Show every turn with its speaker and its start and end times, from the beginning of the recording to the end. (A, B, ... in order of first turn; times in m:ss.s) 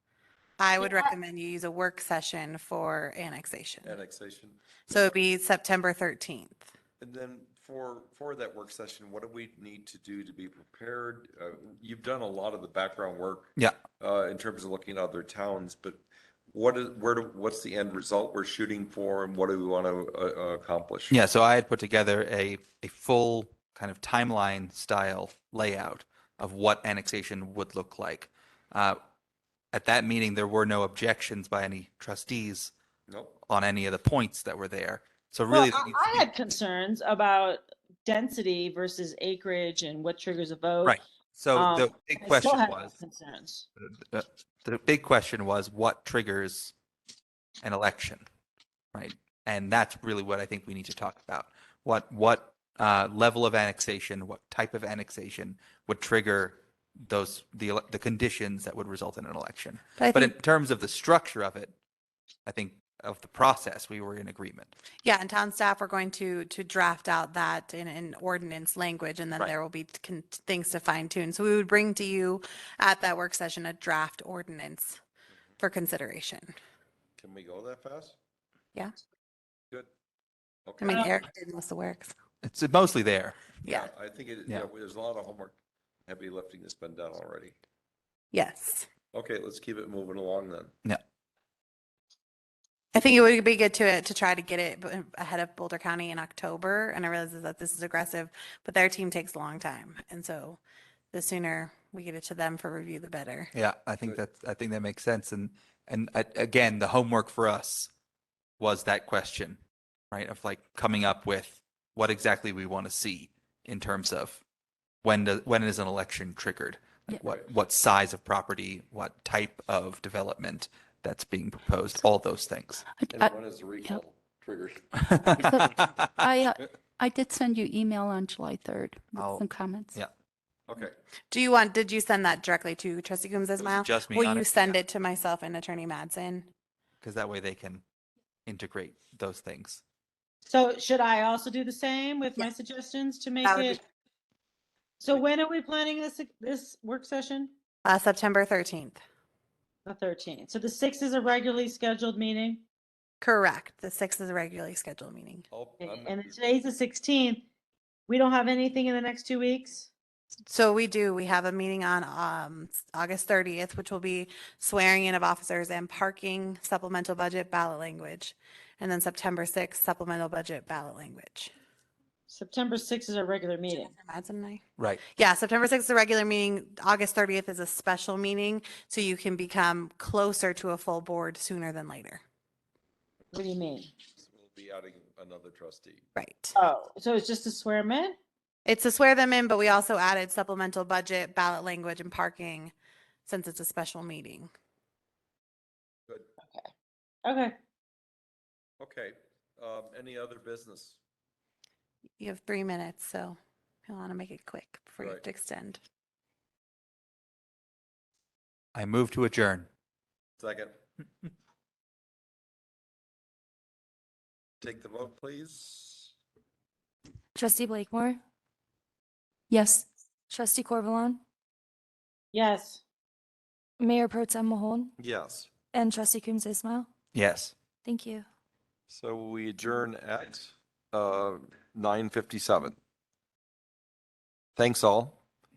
0:00.6-0:04.0 A
0:03.8-0:04.6 B
0:04.9-0:06.7 A
0:07.0-0:21.1 B
0:21.1-0:29.0 C
0:29.7-0:32.7 C
0:33.1-0:33.4 B
0:33.5-0:36.3 C
0:35.5-0:40.9 D
0:40.8-0:42.9 C
0:41.6-0:43.7 D
0:43.8-0:46.7 C
0:47.6-0:48.2 C
0:48.9-1:01.8 C
1:00.0-1:00.3 A
1:02.4-1:04.7 C
1:05.0-1:15.0 A
1:15.6-1:16.5 A
1:17.2-1:18.2 B
1:20.7-1:21.1 B
1:20.8-1:22.1 A
1:22.4-1:23.6 C
1:23.6-1:23.9 A
1:23.7-1:25.6 B
1:26.1-1:27.6 B
1:28.3-1:28.9 A
1:29.1-1:30.7 B
1:32.9-1:40.6 A
1:41.1-1:43.5 A
1:43.5-1:47.9 C
1:48.6-1:49.6 C
1:50.1-1:54.4 C
1:55.0-2:02.8 C
2:03.0-2:04.0 E
2:03.1-2:05.6 B
2:05.0-2:06.3 C
2:05.3-2:10.0 E
2:09.2-2:10.1 C
2:10.7-2:11.0 B
2:11.3-2:16.5 A
2:13.6-2:14.8 C
2:17.0-2:17.8 C
2:18.5-2:19.8 C
2:20.4-2:23.8 D
2:23.4-2:23.8 A
2:25.0-2:27.5 D
2:27.8-2:29.0 A
2:29.9-2:32.6 D
2:33.2-2:35.4 A
2:35.5-2:36.4 B
2:35.8-2:37.4 D
2:38.1-2:39.9 D
2:40.5-2:51.5 A
2:52.3-2:53.9 D
2:53.7-3:02.2 A
3:03.3-3:03.9 D
3:04.2-3:06.1 B
3:06.2-3:06.6 A
3:06.6-3:08.2 D
3:08.7-3:12.7 A
3:13.3-3:14.5 A
3:17.2-3:17.6 D
3:18.8-3:21.0 B
3:22.2-3:25.8 A
3:28.8-3:29.7 C
3:30.4-3:30.8 B
3:34.6-3:36.1 B
3:37.4-3:38.2 F
3:39.5-3:39.9 E
3:40.3-3:41.2 F
3:42.3-3:42.8 D
3:43.8-3:44.9 F
3:45.0-3:45.5 B
3:45.7-3:46.9 F
3:47.1-3:47.6 C
3:47.8-3:48.3 F
3:48.9-3:52.8 B
3:54.6-3:55.2 B